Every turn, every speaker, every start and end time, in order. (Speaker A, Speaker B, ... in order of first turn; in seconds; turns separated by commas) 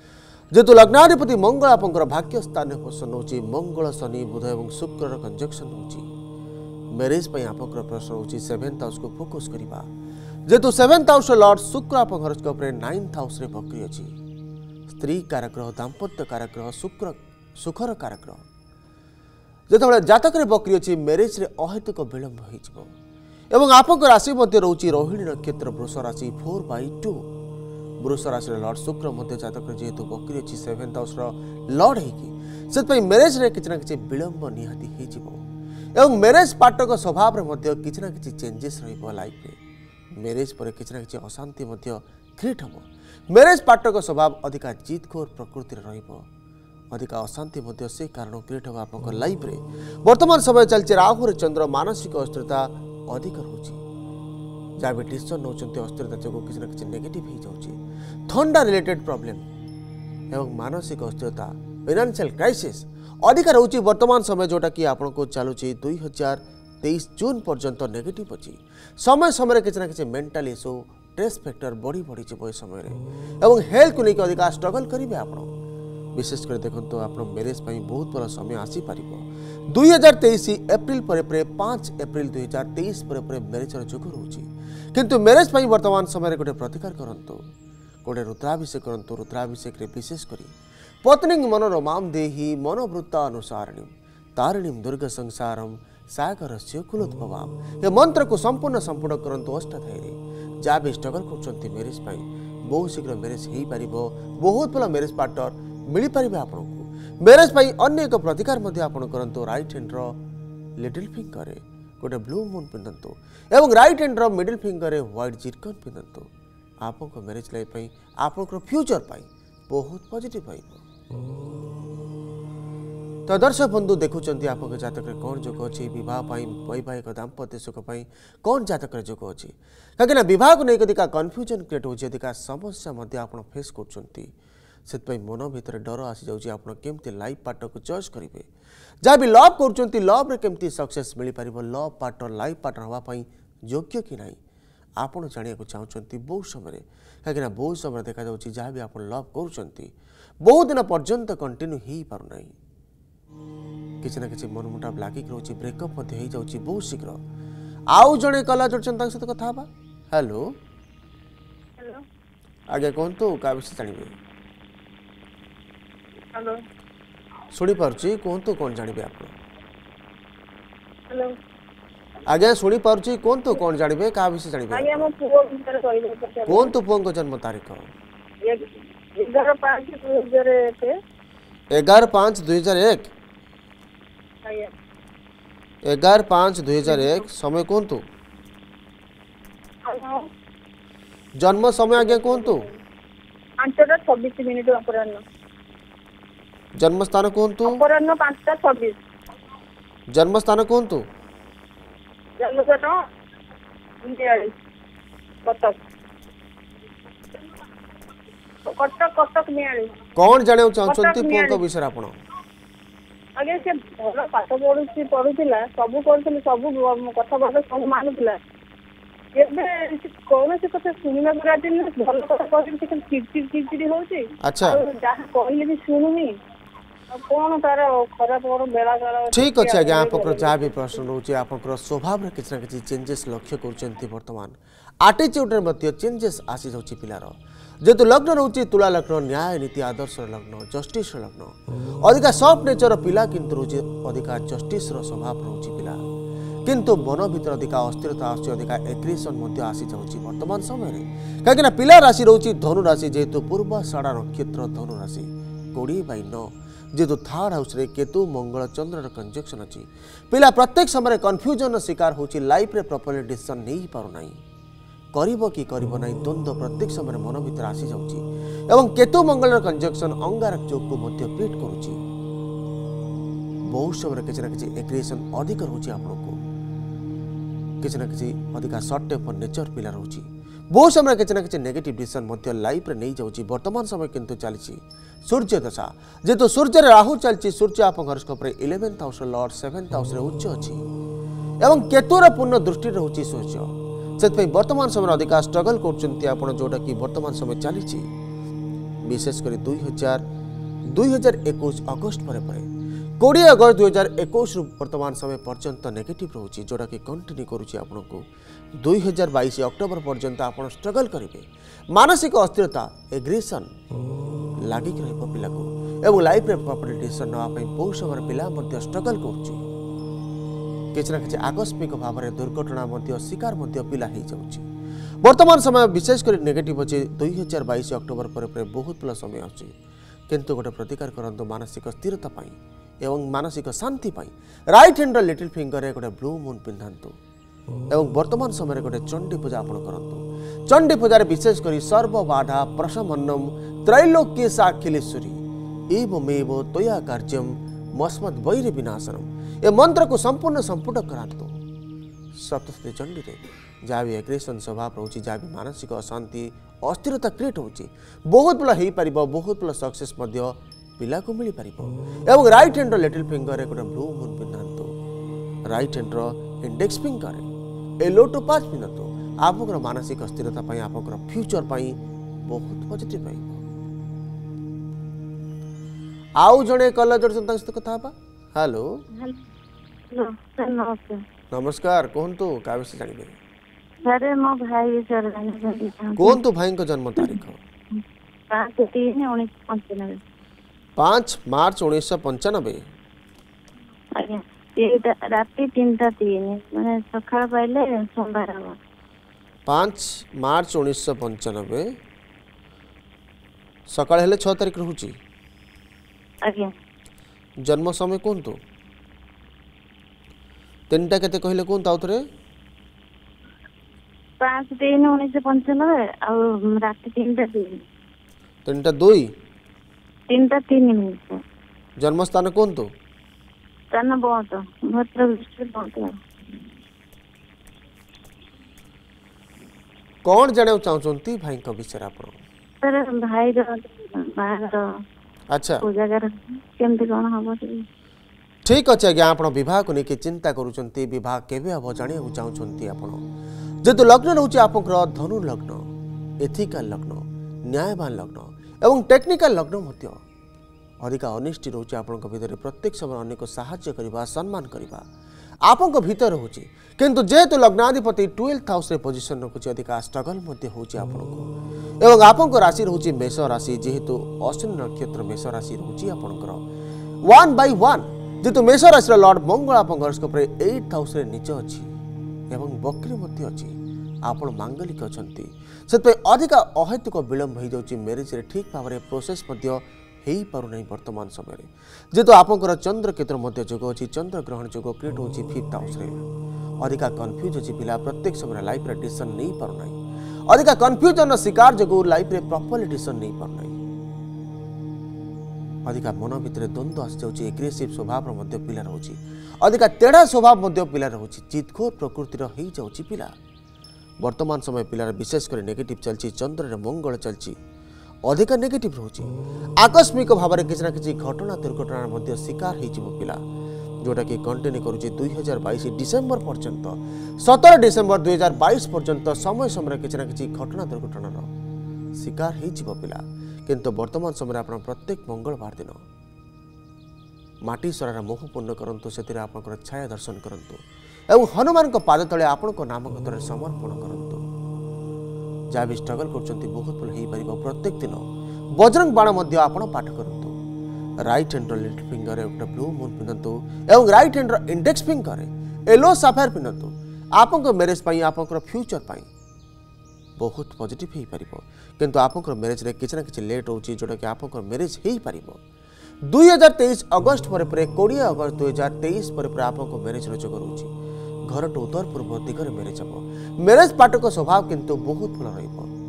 Speaker A: 0.5-6.1, Speaker A: 6.9-9.8, Speaker A: 10.5-14.1, Speaker A: 14.9-18.4, Speaker A: 19.7-22.9, Speaker A: 23.5-27.2, Speaker A: 28.0-35.4, Speaker A: 36.0-39.6, Speaker A: 40.1-46.2, Speaker A: 46.9-53.8, Speaker A: 54.8-57.8, Speaker A: 58.3-59.4, Speaker A: 60.3-75.5, Speaker A: 76.2-87.4, Speaker A: 88.0-90.5, Speaker A: 91.0-110.1, Speaker A: 110.8-116.3, Speaker A: 116.8-120.8, Speaker A: 123.3-134.3, Speaker A: 134.9-138.4, Speaker A: 139.0-144.4, Speaker A: 145.0-149.9, Speaker A: 150.4-152.5, Speaker A: 154.0-157.2, Speaker A: 157.9-160.4, Speaker A: 162.7-164.1, Speaker A: 167.5-169.3, Speaker A: 172.2-175.1, Speaker B: 174.7-176.7, Speaker A: 176.5-177.9, Speaker B: 179.2-180.9, Speaker A: 181.7-183.1, Speaker B: 184.4-184.7, Speaker A: 185.8-188.0, Speaker B: 189.9-190.2, Speaker A: 191.4-192.7, Speaker B: 192.0-192.5, Speaker B: 193.6-195.2, Speaker A: 196.8-197.8, Speaker B: 197.7-198.9, Speaker A: 200.1-201.0, Speaker B: 202.4-202.9, Speaker B: 204.0-204.5, Speaker B: 205.4-205.8, Speaker B: 208.7-209.9, Speaker A: 210.2-212.1, Speaker B: 210.9-211.6, Speaker B: 213.4-218.4, Speaker B: 219.4-226.3, Speaker A: 224.4-224.8, Speaker B: 227.1-230.7, Speaker A: 229.3-246.0, Speaker A: 246.7-264.4, Speaker A: 265.1-272.0, Speaker A: 273.7-276.4, Speaker A: 277.8-290.8, Speaker A: 291.6-298.1, Speaker A: 299.1-300.2, Speaker A: 300.9-302.6, Speaker A: 303.2-308.2, Speaker A: 308.8-313.7, Speaker A: 314.6-319.6, Speaker A: 320.9-324.6, Speaker A: 325.2-329.7, Speaker A: 330.3-337.1, Speaker A: 337.9-351.5, Speaker A: 352.3-364.9, Speaker A: 365.7-367.5, Speaker A: 368.0-371.9, Speaker A: 372.4-373.6, Speaker A: 376.4-378.9, Speaker C: 380.1-381.2, Speaker A: 381.5-383.4, Speaker C: 384.1-386.4, Speaker A: 386.1-387.6, Speaker C: 388.5-390.2, Speaker A: 391.0-392.8, Speaker C: 394.2-398.8, Speaker A: 399.7-401.9, Speaker A: 403.9-405.1, Speaker C: 406.4-406.7, Speaker A: 407.6-408.5, Speaker A: 410.9-412.2, Speaker C: 414.4-417.7, Speaker A: 418.6-419.3, Speaker C: 420.3-421.4, Speaker A: 422.0-422.9, Speaker C: 423.9-426.1, Speaker A: 430.2-432.4, Speaker C: 432.8-434.8, Speaker A: 435.5-435.8, Speaker C: 435.8-437.8, Speaker A: 438.6-443.2, Speaker A: 443.8-445.8, Speaker A: 446.4-450.2, Speaker A: 451.0-455.0, Speaker A: 455.6-461.4, Speaker A: 462.0-466.6, Speaker A: 467.2-471.9, Speaker A: 472.5-486.2, Speaker A: 486.8-489.9, Speaker A: 490.5-493.8, Speaker A: 495.9-503.3, Speaker A: 504.2-507.6, Speaker A: 508.3-513.4, Speaker A: 514.0-521.5, Speaker A: 522.2-526.0, Speaker A: 527.6-534.4, Speaker A: 535.7-538.2, Speaker A: 538.8-540.5, Speaker A: 541.2-549.3, Speaker A: 550.4-555.6, Speaker A: 556.3-560.9, Speaker A: 561.5-565.9